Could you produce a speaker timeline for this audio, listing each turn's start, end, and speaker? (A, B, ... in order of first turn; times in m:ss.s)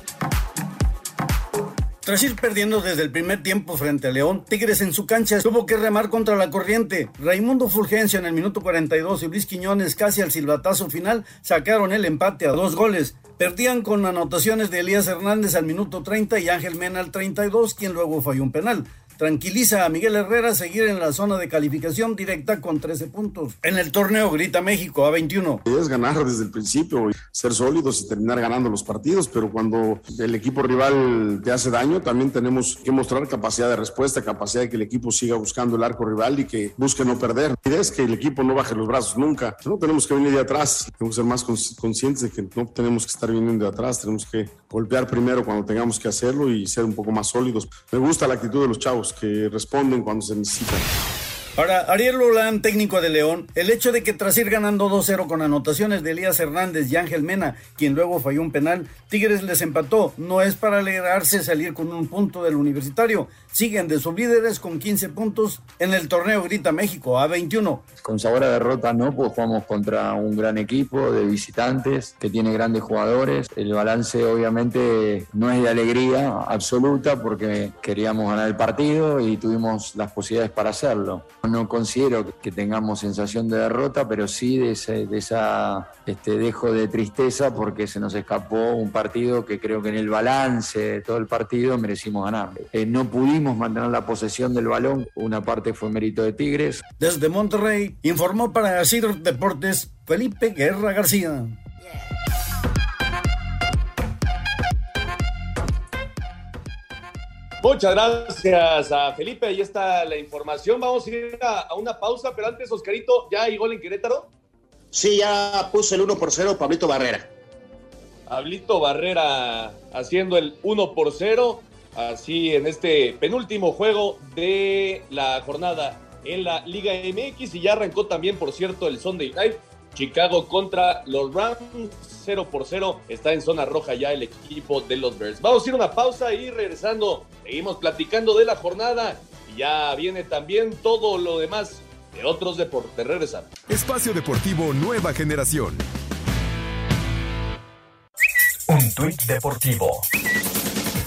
0:02.0-0:25.6 A
0:25.6-0:50.8 B
0:51.6-1:07.8 A
1:08.0-1:36.8 C
1:37.0-1:41.6 A
1:47.6-1:54.3 D
1:54.9-1:57.3 E
1:58.3-2:23.5 D
2:23.7-2:25.8 F